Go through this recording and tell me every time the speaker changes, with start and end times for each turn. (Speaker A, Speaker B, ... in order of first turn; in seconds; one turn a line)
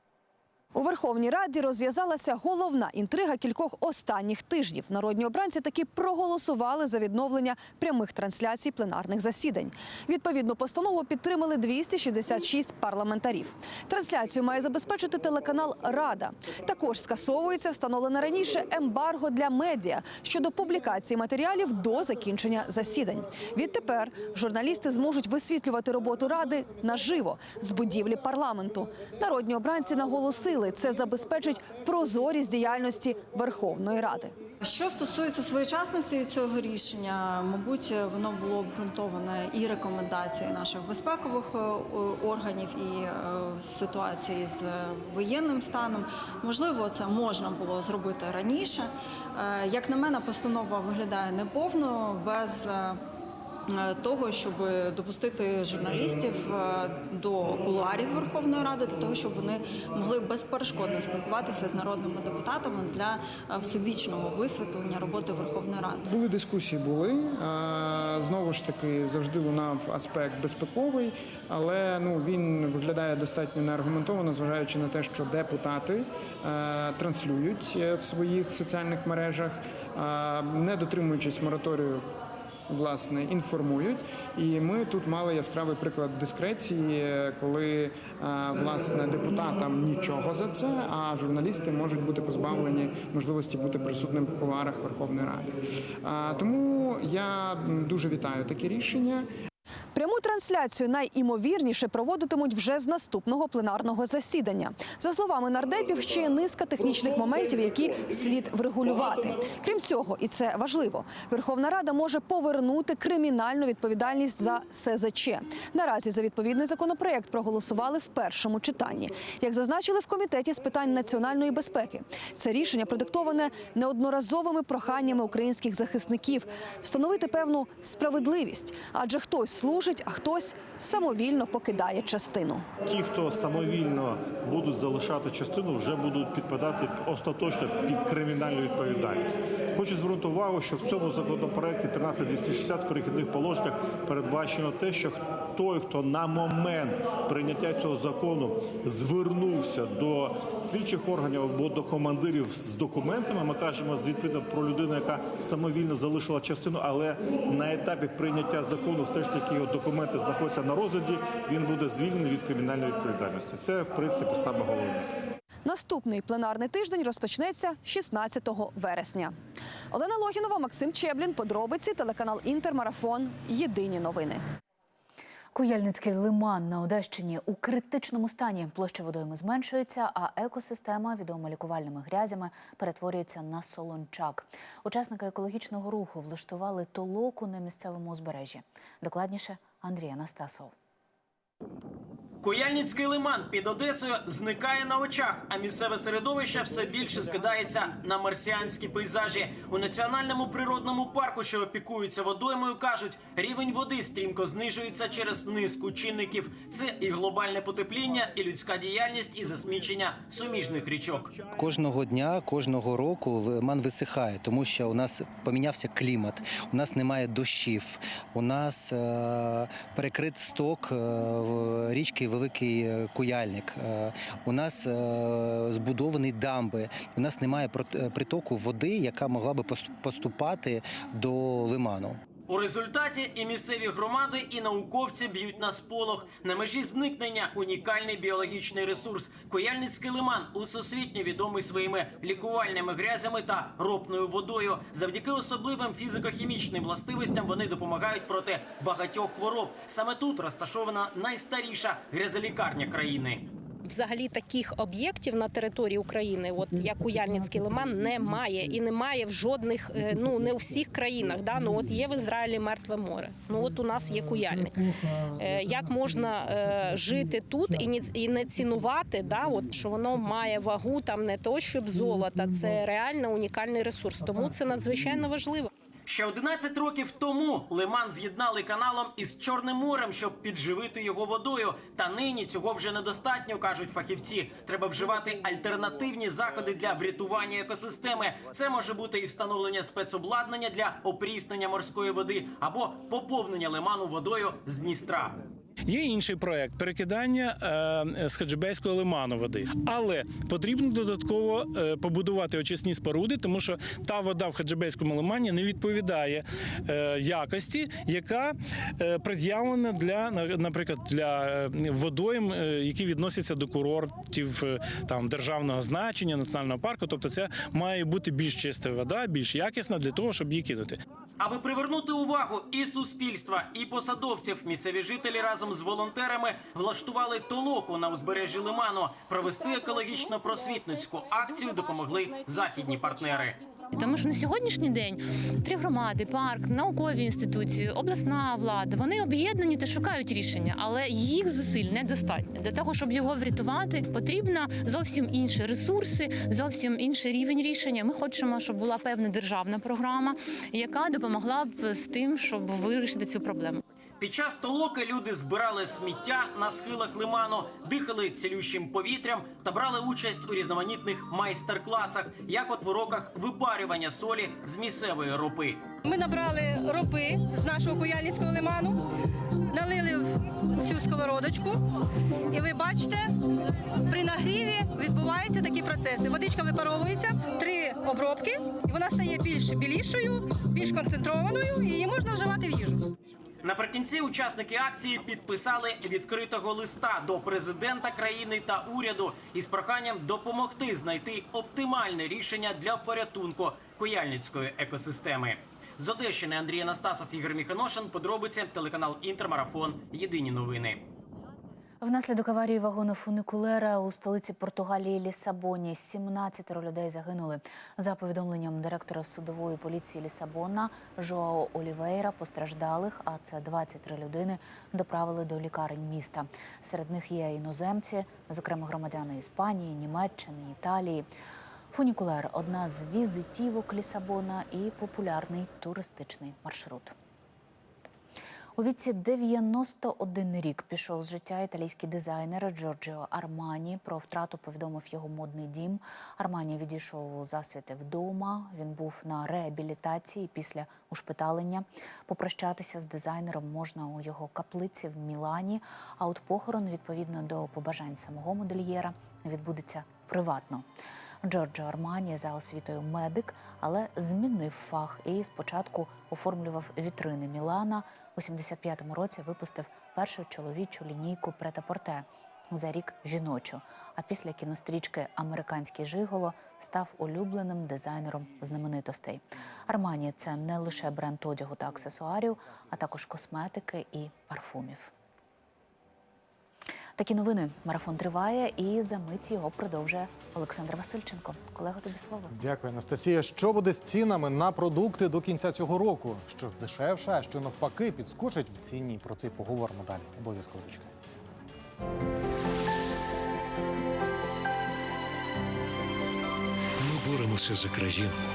Speaker A: 0.7-34.4
Speaker B: 34.6-53.0
Speaker B: 53.7-66.1
Speaker C: 66.0-82.0
Speaker C: 82.7-99.2
Speaker A: 99.9-132.7
Speaker D: 132.8-165.1
Speaker A: 165.6-169.4
Speaker A: 169.9-174.4
Speaker E: 175.6-190.7
Speaker F: 192.4-211.4
Speaker G: 211.7-219.0
Speaker G: 219.9-220.9
Speaker G: 221.9-223.9
Speaker G: 224.5-225.0
Speaker G: 225.8-232.2
Speaker F: 232.5-253.5
Speaker H: 253.9-264.8
Speaker I: 256.8-258.4
Speaker I: 260.3-260.8
Speaker I: 261.5-261.9
Speaker I: 263.9-264.5
Speaker H: 265.4-275.7
Speaker I: 265.8-266.1
Speaker I: 268.4-268.8
Speaker I: 272.0-272.7
Speaker I: 274.4-275.2
Speaker F: 276.1-295.4
Speaker I: 295.9-321.0
Speaker F: 321.4-333.6
Speaker J: 333.9-353.8
Speaker F: 354.2-365.9
Speaker K: 366.1-369.0
Speaker J: 367.8-368.7
Speaker K: 369.7-370.2
Speaker K: 370.9-371.8
Speaker K: 372.5-373.2
Speaker K: 374.1-383.0
Speaker F: 383.6-401.0
Speaker E: 402.0-421.3
Speaker E: 421.9-427.1
Speaker E: 428.8-450.9
Speaker E: 451.4-475.1
Speaker E: 477.2-482.5
Speaker L: 482.6-491.3
Speaker J: 497.3-498.1